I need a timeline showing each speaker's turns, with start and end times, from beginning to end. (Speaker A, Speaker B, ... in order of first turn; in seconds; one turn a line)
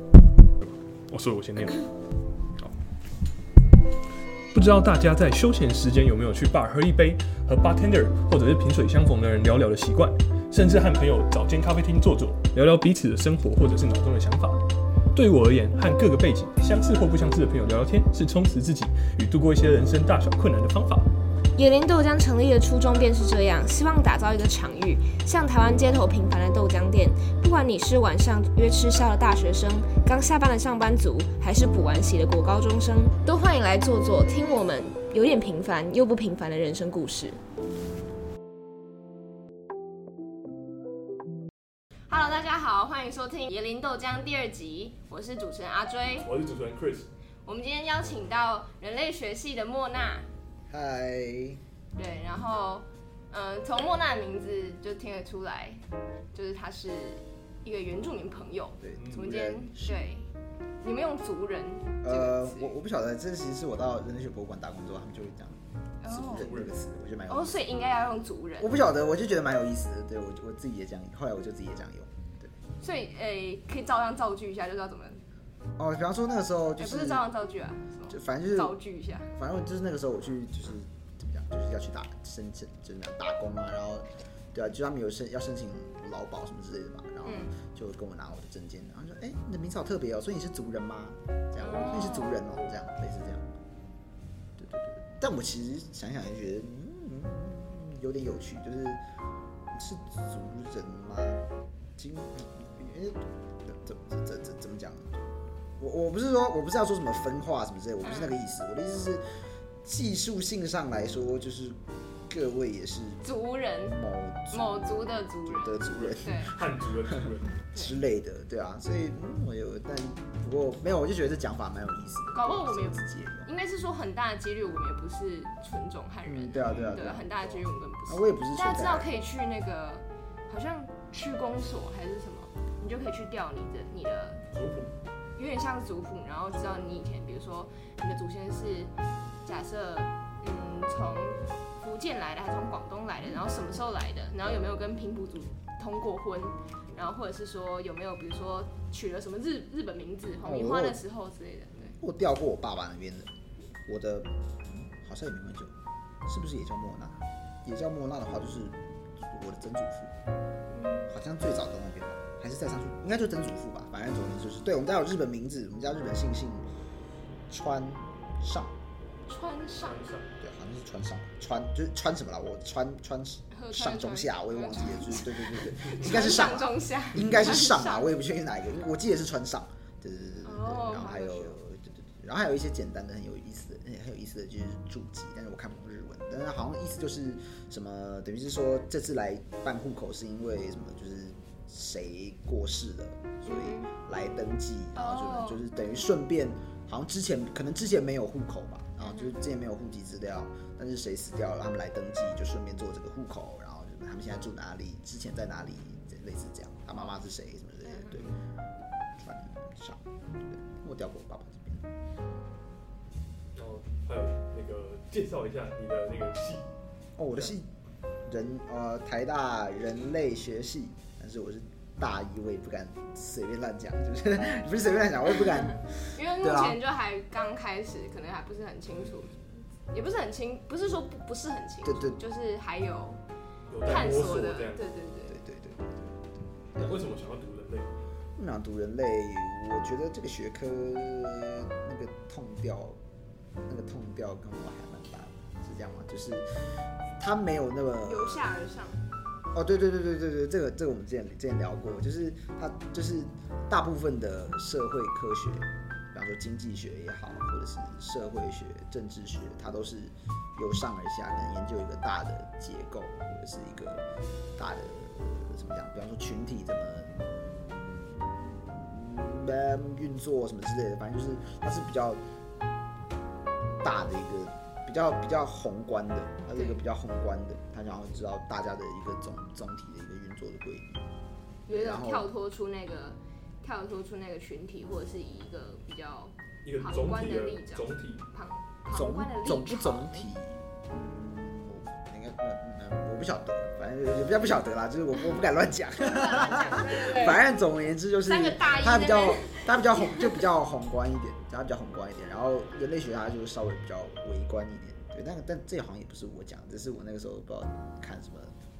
Speaker A: 0.6-1.9
Speaker A: 4.5-14.6
Speaker A: 15.1-21.1
Speaker B: 21.6-37.4
Speaker B: 42.1-46.3
Speaker A: 46.2-47.1
Speaker B: 47.4-50.3
Speaker C: 50.7-51.6
Speaker B: 52.0-55.8
Speaker B: 56.3-60.3
Speaker C: 58.8-60.0
Speaker A: 59.0-59.3
Speaker B: 60.8-62.7
Speaker C: 62.0-67.6
Speaker B: 66.0-66.5
Speaker A: 66.3-66.7
Speaker B: 67.3-68.7
Speaker C: 68.6-72.5
Speaker B: 72.8-75.2
Speaker C: 75.8-77.2
Speaker B: 76.8-79.3
Speaker C: 78.1-78.8
Speaker C: 79.3-93.4
Speaker B: 87.2-87.5
Speaker B: 91.6-92.4
Speaker C: 94.6-99.0
Speaker C: 99.7-101.4
Speaker C: 102.0-105.2
Speaker C: 105.8-109.2
Speaker B: 108.0-108.3
Speaker C: 109.8-113.2
Speaker B: 113.2-114.0
Speaker C: 113.8-123.5
Speaker B: 114.5-116.5
Speaker A: 116.0-117.5
Speaker B: 122.3-134.4
Speaker C: 126.2-129.1
Speaker A: 126.6-127.0
Speaker A: 134.5-134.9
Speaker B: 135.4-138.9
Speaker B: 139.4-152.0
Speaker C: 150.4-151.0
Speaker C: 152.0-153.3
Speaker C: 153.8-155.7
Speaker C: 156.2-160.1
Speaker B: 160.7-161.1
Speaker C: 161.1-166.7
Speaker C: 167.5-168.7
Speaker B: 169.3-170.2
Speaker C: 170.4-208.3
Speaker B: 173.5-178.1
Speaker B: 180.4-181.6
Speaker B: 193.4-193.9
Speaker B: 194.9-195.6
Speaker B: 199.0-199.3
Speaker B: 207.9-208.2
Speaker C: 209.2-211.9
Speaker A: 213.5-216.7
Speaker C: 217.2-217.7
Speaker C: 218.2-226.8
Speaker B: 226.1-233.2
Speaker C: 231.8-232.2
Speaker A: 233.7-234.8
Speaker B: 233.8-235.4
Speaker C: 235.3-237.1
Speaker A: 236.8-237.9
Speaker C: 238.4-243.0
Speaker C: 243.7-246.6
Speaker C: 247.2-248.4
Speaker B: 248.0-249.0
Speaker C: 249.5-264.0
Speaker C: 264.6-272.2
Speaker C: 273.8-281.1
Speaker B: 281.7-290.3
Speaker C: 281.7-282.3
Speaker A: 286.6-288.2
Speaker C: 288.9-308.5
Speaker B: 296.0-297.4
Speaker B: 298.2-300.3